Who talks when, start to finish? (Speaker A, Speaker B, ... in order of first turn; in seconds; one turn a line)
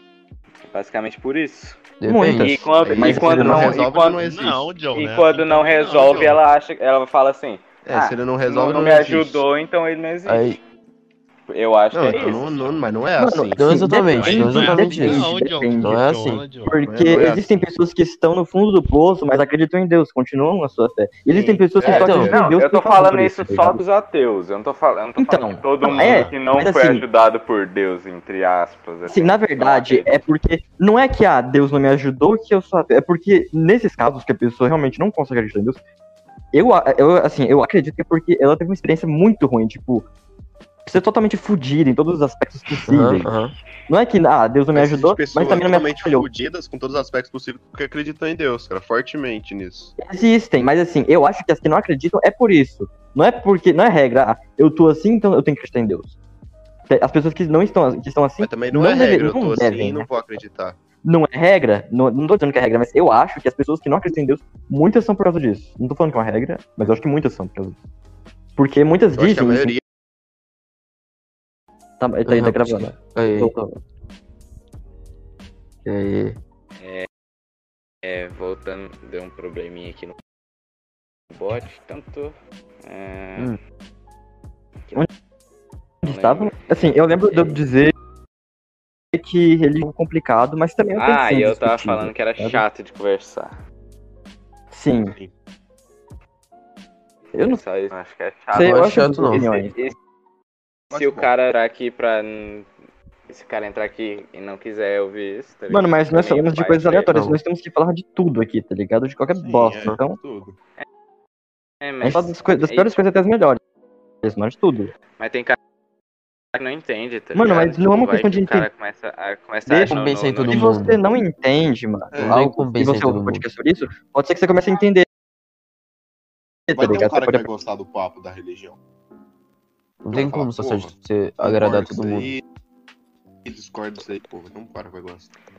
Speaker A: 0.7-1.8
Speaker B: 2.0-2.6
Speaker C: 2.1-3.8
Speaker A: 2.3-4.2
Speaker D: 2.8-4.7
Speaker E: 4.2-6.4
Speaker A: 4.9-10.6
Speaker D: 7.8-9.4
Speaker B: 10.3-10.6
Speaker A: 11.5-12.5
Speaker D: 11.9-13.7
Speaker E: 12.1-12.8
Speaker C: 13.2-16.0
Speaker B: 13.6-15.3
Speaker E: 14.1-16.9
Speaker B: 15.8-16.4
Speaker C: 16.6-23.8
Speaker D: 16.9-17.6
Speaker A: 21.3-30.2
Speaker D: 21.8-22.4
Speaker B: 21.9-22.3
Speaker C: 25.2-27.0
Speaker E: 25.8-26.4
Speaker C: 29.1-35.8
Speaker C: 36.5-40.1
Speaker C: 40.9-43.3
Speaker B: 42.9-43.5
Speaker C: 43.9-46.3
Speaker D: 44.7-50.0
Speaker C: 50.0-56.1
Speaker C: 56.9-60.1
Speaker D: 58.4-60.8
Speaker C: 61.0-67.8
Speaker C: 68.6-69.8
Speaker D: 69.2-69.8
Speaker C: 72.0-73.8
Speaker B: 72.3-73.5
Speaker B: 75.8-76.4
Speaker A: 76.8-77.1
Speaker A: 78.0-80.2
Speaker A: 81.3-83.5
Speaker C: 86.0-87.9
Speaker A: 86.1-87.6
Speaker C: 89.1-92.6
Speaker A: 91.0-93.5
Speaker C: 94.7-95.2
Speaker C: 97.3-97.6
Speaker A: 97.4-100.0
Speaker C: 98.5-99.7
Speaker B: 98.6-99.5
Speaker D: 100.9-101.3
Speaker A: 100.9-102.7
Speaker A: 103.3-107.1
Speaker C: 105.7-110.2
Speaker B: 107.1-107.4
Speaker D: 109.4-110.6
Speaker A: 111.8-113.0
Speaker C: 112.0-113.6
Speaker C: 114.2-114.9
Speaker A: 115.2-115.6
Speaker A: 116.5-120.7
Speaker C: 117.3-118.7
Speaker C: 119.7-120.0
Speaker B: 119.9-121.0
Speaker C: 120.5-125.1
Speaker D: 122.1-122.4
Speaker B: 122.2-123.5
Speaker C: 126.7-127.5
Speaker D: 126.7-128.8
Speaker B: 130.0-132.3
Speaker D: 130.1-132.4
Speaker D: 133.4-135.3